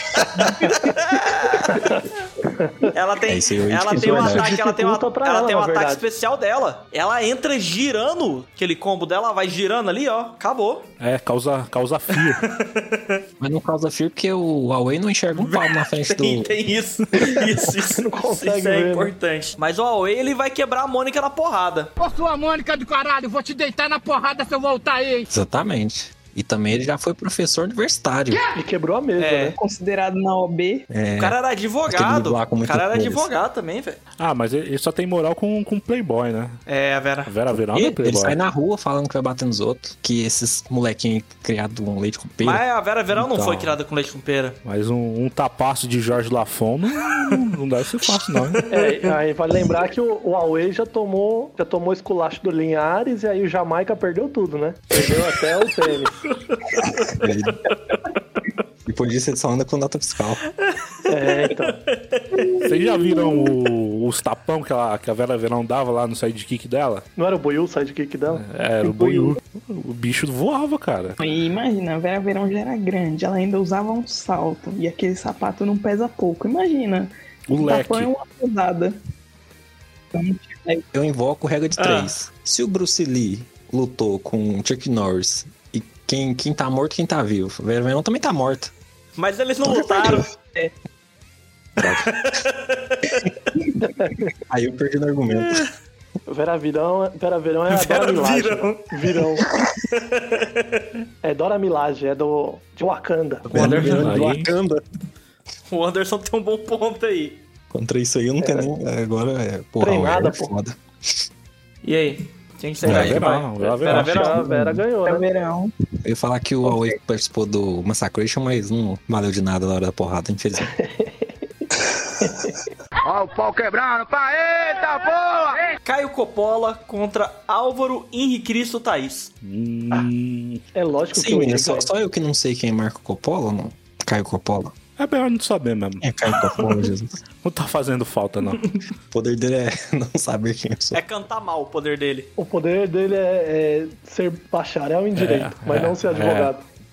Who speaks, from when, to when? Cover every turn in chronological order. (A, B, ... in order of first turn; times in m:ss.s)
0:00.4-0:01.8 A
0:01.6-0:02.9 B
0:02.9-0:10.9 A
0:03.3-0:04.5 C
0:03.9-0:06.0 B
0:11.0-0:12.4 D
0:12.1-0:13.2 A
0:13.4-0:16.5 C
0:15.3-0:21.9 A
0:17.8-0:19.1 B
0:22.0-0:25.3 E
0:25.3-0:28.4 C
0:28.5-0:29.6 B
0:29.2-0:29.6 A
0:29.6-0:30.8 F
0:30.9-0:33.3 C
0:31.2-0:34.0 A
0:34.2-0:36.6 D
0:36.7-0:37.3 A
0:37.2-0:38.4 D
0:37.7-0:42.6 C
0:42.4-0:44.6 A
0:43.1-0:43.8 D
0:44.6-0:48.7 D
0:48.6-0:49.1 A
0:48.7-0:56.2 B
0:56.5-0:57.1 A
0:57.2-0:57.7 C
0:58.8-1:00.4 C
1:00.6-1:02.4 A
1:01.1-1:01.8 B
1:02.3-1:03.5 F
1:02.7-1:07.0 D
1:07.2-1:09.4 B
1:08.3-1:11.2 D
1:11.2-1:19.0 F
1:17.5-1:18.1 D
1:20.1-1:20.8 F
1:20.9-1:28.7 C
1:21.8-1:22.1 A
1:29.2-1:30.3 A
1:29.6-1:30.2 C
1:31.8-1:32.1 C
1:31.8-1:33.3 A
1:33.8-1:34.3 B
1:34.5-1:35.7 C
1:36.3-1:39.4 B
1:37.7-1:39.1 A
1:39.9-1:40.8 A
1:41.2-1:43.5 B
1:43.5-1:44.8 C
1:43.5-1:44.1 A
1:43.6-1:44.5 D
1:45.7-1:47.4 A
1:47.7-1:51.2 C
1:48.4-1:48.7 B
1:49.8-1:50.5 B
1:51.8-1:54.4 A
1:52.8-1:54.4 D
1:52.8-1:53.2 C
1:53.8-1:55.2 B
1:54.4-1:54.8 C
1:55.0-1:55.7 F
1:56.0-2:00.7 C
1:56.6-1:57.0 F
2:00.8-2:01.3 B
2:02.2-2:02.5 B
2:03.0-2:05.7 G
2:05.8-2:09.3 A
2:09.4-2:10.6 D
2:10.7-2:11.9 B
2:11.1-2:14.8 C
2:15.0-2:16.0 D
2:16.0-2:17.2 C
2:17.4-2:18.7 D
2:19.1-2:21.0 C
2:20.9-2:22.3 A
2:22.4-2:26.7 B
2:25.2-2:26.5 D